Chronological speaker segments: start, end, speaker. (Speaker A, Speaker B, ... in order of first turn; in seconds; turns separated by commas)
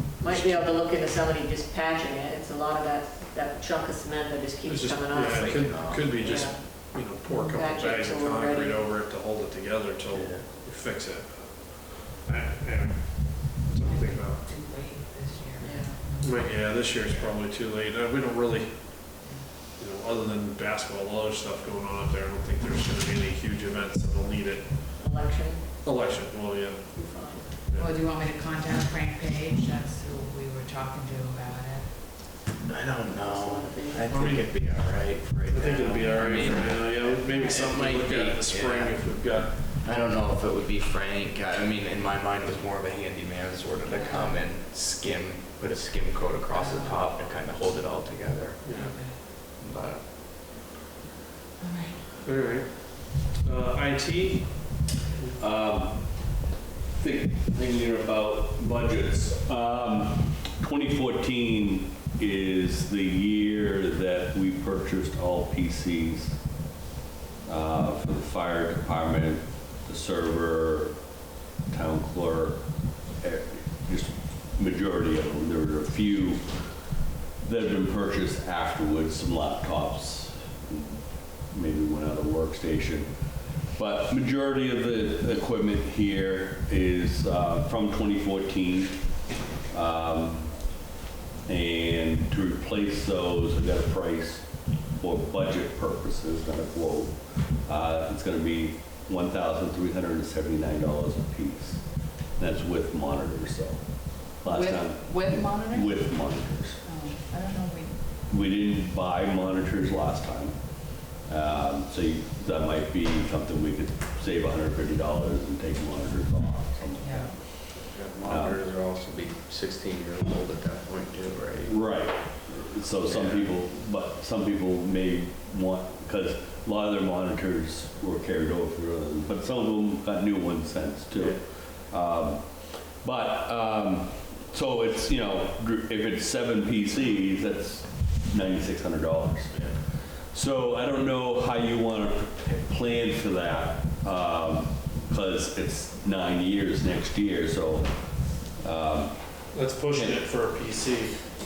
Speaker A: 0.2-6.6, Speaker B: 0.3-0.6, Speaker C: 4.7-14.4, Speaker B: 5.1-6.2, Speaker A: 7.3-8.8, Speaker B: 10.1-10.4, Speaker D: 13.8-17.2, Speaker A: 15.6-16.0, Speaker C: 16.2-19.1, Speaker C: 19.8-24.9, Speaker A: 25.0-25.7, Speaker C: 25.8-26.9, Speaker A: 26.9-27.5, Speaker C: 27.7-27.9, Speaker D: 27.8-31.9, Speaker B: 32.6-48.6, Speaker A: 33.1-34.2, Speaker C: 34.1-34.5, Speaker C: 35.5-39.6, Speaker D: 37.3-37.6, Speaker D: 43.9-44.4, Speaker D: 46.5-47.0, Speaker C: 48.6-48.9, Speaker D: 48.7-49.2, Speaker B: 49.6-50.0, Speaker D: 51.6-52.0, Speaker C: 52.2-54.6, Speaker E: 55.4-56.4, Speaker E: 56.9-66.4, Speaker E: 67.5-71.0, Speaker E: 71.7-72.7, Speaker E: 73.2-83.1, Speaker E: 83.8-89.1, Speaker E: 89.7-90.6, Speaker E: 91.5-101.8, Speaker E: 102.3-106.8, Speaker D: 104.5-106.1, Speaker D: 106.8-107.9, Speaker E: 108.3-117.7, Speaker D: 117.0-117.3, Speaker B: 117.8-121.8, Speaker E: 118.2-118.6, Speaker E: 121.6-149.4, Speaker B: 123.0-123.5, Speaker B: 131.1-131.4, Speaker C: 149.5-151.2, Speaker E: 149.9-150.2